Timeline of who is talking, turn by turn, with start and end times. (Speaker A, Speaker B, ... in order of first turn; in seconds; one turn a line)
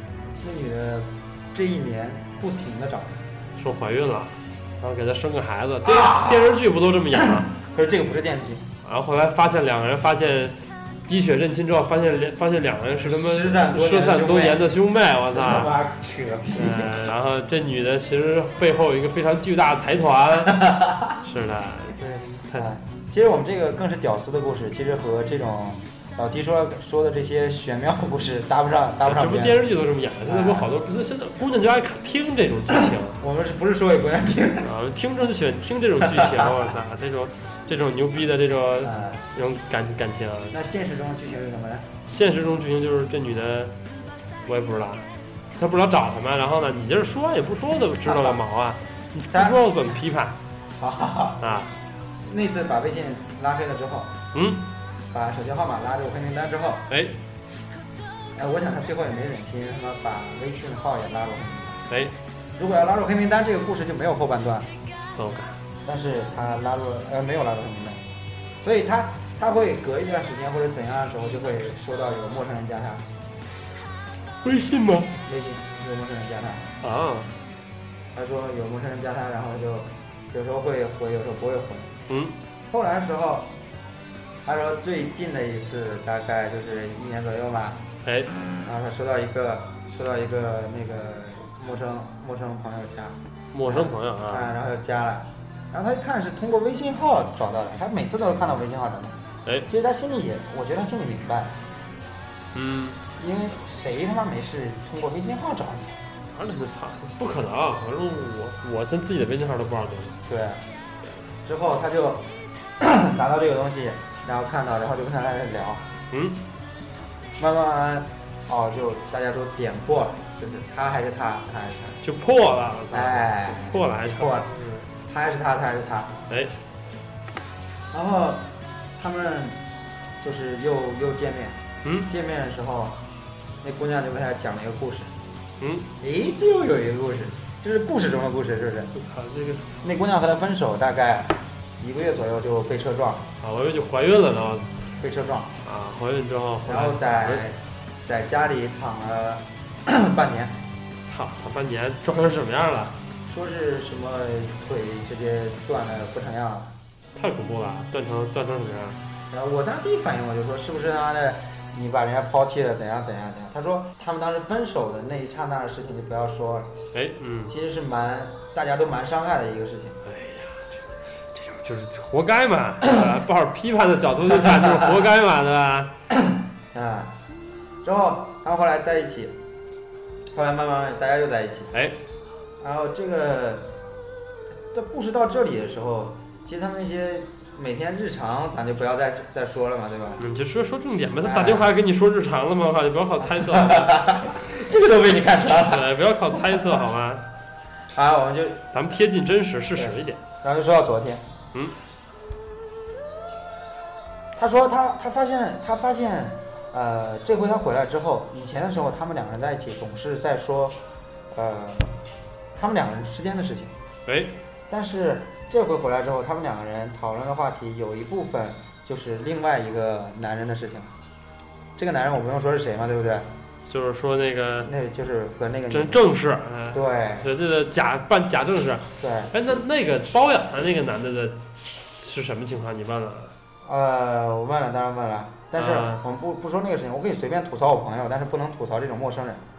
Speaker A: 0.4-3.2
Speaker B: 3.5-7.5
Speaker A: 5.8-6.6
Speaker A: 7.2-8.7
Speaker B: 8.8-10.6
Speaker B: 11.1-15.7
Speaker A: 13.0-14.7
Speaker A: 15.3-17.0
Speaker B: 16.5-22.7
Speaker A: 20.4-21.2
Speaker A: 22.0-29.6
Speaker B: 29.0-33.2
Speaker A: 30.2-30.7
Speaker A: 33.2-34.7
Speaker B: 34.6-40.5
Speaker A: 36.0-36.5
Speaker A: 38.8-39.2
Speaker A: 40.5-41.9
Speaker B: 42.0-43.7
Speaker B: 44.4-45.0
Speaker B: 45.6-50.4
Speaker A: 48.0-48.4
Speaker A: 49.3-49.6
Speaker A: 50.8-51.4
Speaker B: 51.4-51.7
Speaker A: 52.2-54.2
Speaker B: 54.3-54.7
Speaker A: 55.1-56.9
Speaker B: 56.9-57.1
Speaker A: 58.3-61.8
Speaker B: 61.9-62.1
Speaker A: 62.5-64.7
Speaker B: 65.1-65.6
Speaker A: 65.8-68.0
Speaker A: 68.6-73.0
Speaker B: 74.4-75.1
Speaker A: 75.2-76.7
Speaker B: 76.8-77.3
Speaker A: 78.1-82.0
Speaker B: 82.1-82.3
Speaker A: 82.7-83.5
Speaker A: 84.4-87.8
Speaker B: 88.0-88.3
Speaker A: 88.6-101.6
Speaker B: 93.5-94.5
Speaker B: 102.5-103.0
Speaker A: 103.2-106.0
Speaker B: 106.3-110.2
Speaker A: 110.2-110.6
Speaker A: 111.4-115.9
Speaker B: 116.1-116.4
Speaker A: 117.4-122.0
Speaker B: 122.0-124.8
Speaker A: 122.9-126.2
Speaker A: 127.9-129.6
Speaker A: 130.2-133.0
Speaker B: 131.8-132.1
Speaker A: 133.6-135.1
Speaker B: 135.6-135.9
Speaker A: 136.0-138.9
Speaker B: 138.9-139.7
Speaker A: 139.8-143.3
Speaker B: 143.4-144.7
Speaker A: 145.0-145.6
Speaker B: 145.6-147.4
Speaker A: 146.6-150.6
Speaker B: 151.1-153.0
Speaker A: 153.3-156.7
Speaker B: 157.1-159.0
Speaker A: 159.3-166.7
Speaker B: 166.9-167.5
Speaker A: 167.5-170.0
Speaker B: 170.0-175.9
Speaker A: 174.3-174.8
Speaker A: 176.1-177.1
Speaker A: 177.8-179.4
Speaker A: 180.3-181.7
Speaker B: 181.7-182.0
Speaker A: 182.6-183.7
Speaker A: 184.7-190.2
Speaker B: 190.2-194.3
Speaker A: 191.2-191.7
Speaker A: 193.3-195.9
Speaker B: 195.6-197.2
Speaker A: 197.9-198.7
Speaker B: 198.7-200.2
Speaker A: 199.8-201.2
Speaker A: 204.3-210.8
Speaker A: 211.3-211.9
Speaker A: 212.5-213.7
Speaker B: 214.1-214.3
Speaker A: 214.7-220.9
Speaker A: 221.8-223.3
Speaker B: 223.7-224.7
Speaker A: 224.6-226.0
Speaker B: 225.7-233.3
Speaker A: 226.7-227.3
Speaker A: 229.0-229.3
Speaker A: 233.6-239.4
Speaker B: 235.6-236.0